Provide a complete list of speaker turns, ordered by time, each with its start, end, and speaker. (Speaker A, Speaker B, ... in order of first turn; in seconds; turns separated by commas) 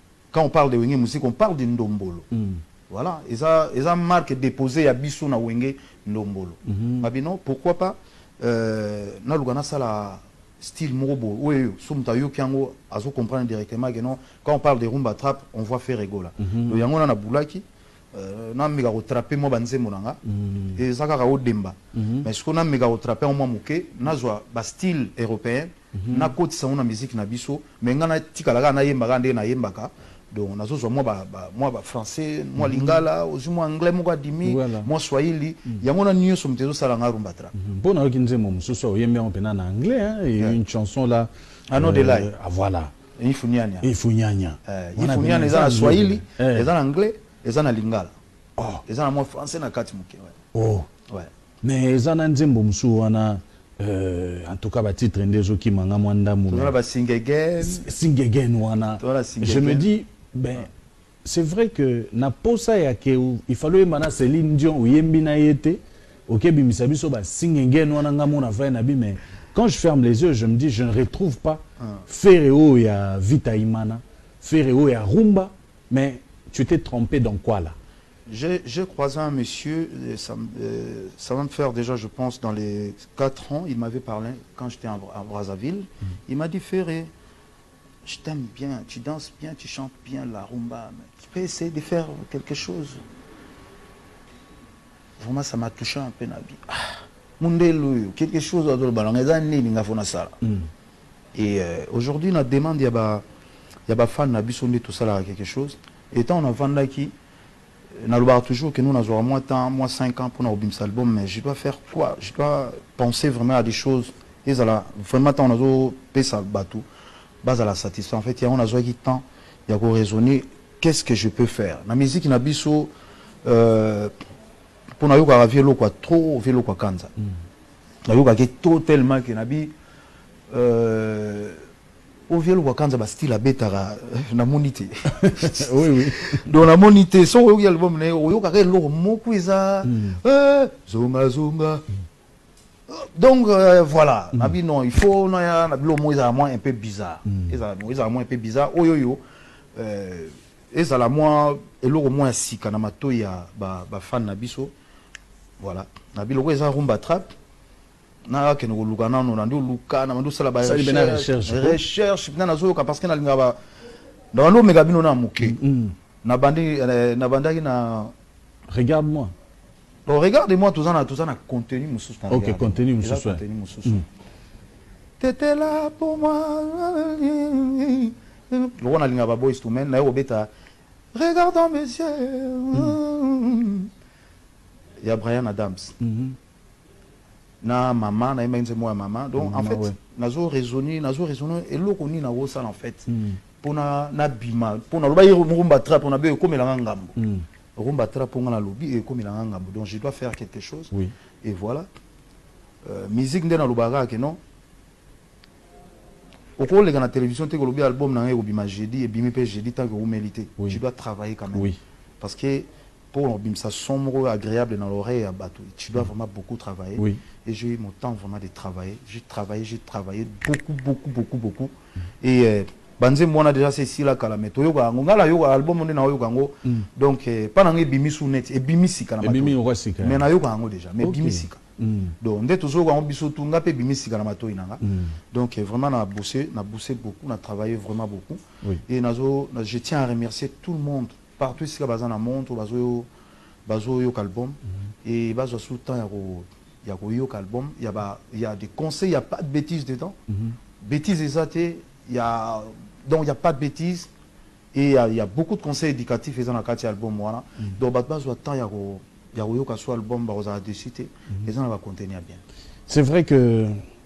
Speaker A: 0.3-2.3, Speaker B: 2.3-2.6, Speaker A: 2.9-20.2, Speaker B: 6.7-7.1, Speaker B: 16.4-16.8, Speaker B: 20.3-20.8, Speaker A: 20.7-37.5, Speaker B: 21.9-22.3, Speaker B: 25.9-26.3, Speaker B: 32.6-33.0, Speaker B: 34.4-34.9, Speaker B: 37.5-42.9, Speaker A: 41.7-42.3, Speaker A: 43.2-43.9, Speaker B: 43.8-46.7, Speaker A: 44.6-48.1, Speaker B: 48.6-48.8, Speaker A: 48.9-50.4, Speaker B: 50.5-50.9, Speaker B: 51.6-56.7, Speaker A: 56.5-57.9, Speaker B: 57.6-60.7, Speaker A: 59.0-59.9, Speaker B: 61.2-77.8, Speaker A: 78.3-87.1, Speaker A: 88.0-93.0, Speaker A: 95.2-100.3, Speaker A: 101.3-103.2, Speaker A: 103.9-107.1, Speaker A: 108.0-116.8, Speaker A: 117.4-122.9, Speaker A: 123.4-124.1, Speaker A: 125.0-127.1, Speaker A: 128.1-129.7, Speaker A: 130.5-131.6, Speaker A: 132.3-141.8, Speaker B: 135.2-136.5, Speaker B: 139.9-140.2, Speaker A: 142.9-149.2, Speaker B: 147.3-147.5, Speaker A: 149.8-154.7, Speaker A: 155.6-157.3, Speaker A: 158.3-163.6, Speaker B: 160.6-161.8, Speaker A: 164.3-165.6, Speaker B: 165.4-165.9, Speaker A: 166.2-168.1, Speaker B: 168.7-169.3, Speaker A: 170.1-174.1, Speaker B: 172.3-174.0, Speaker A: 175.2-180.5, Speaker A: 181.1-183.9, Speaker A: 185.0-185.9, Speaker B: 186.0-186.4, Speaker A: 187.6-193.1, Speaker B: 189.4-189.9, Speaker B: 193.1-193.4, Speaker A: 193.6-197.2, Speaker B: 197.2-197.5, Speaker A: 197.8-200.9, Speaker A: 201.4-201.9, Speaker A: 202.8-204.4, Speaker A: 206.6-231.6, Speaker B: 211.5-211.8, Speaker B: 217.0-217.2, Speaker B: 229.2-230.3, Speaker B: 231.0-232.2, Speaker A: 232.2-243.1, Speaker B: 234.8-235.2, Speaker A: 243.7-250.2, Speaker A: 250.8-254.1, Speaker A: 254.7-262.4, Speaker B: 262.9-263.8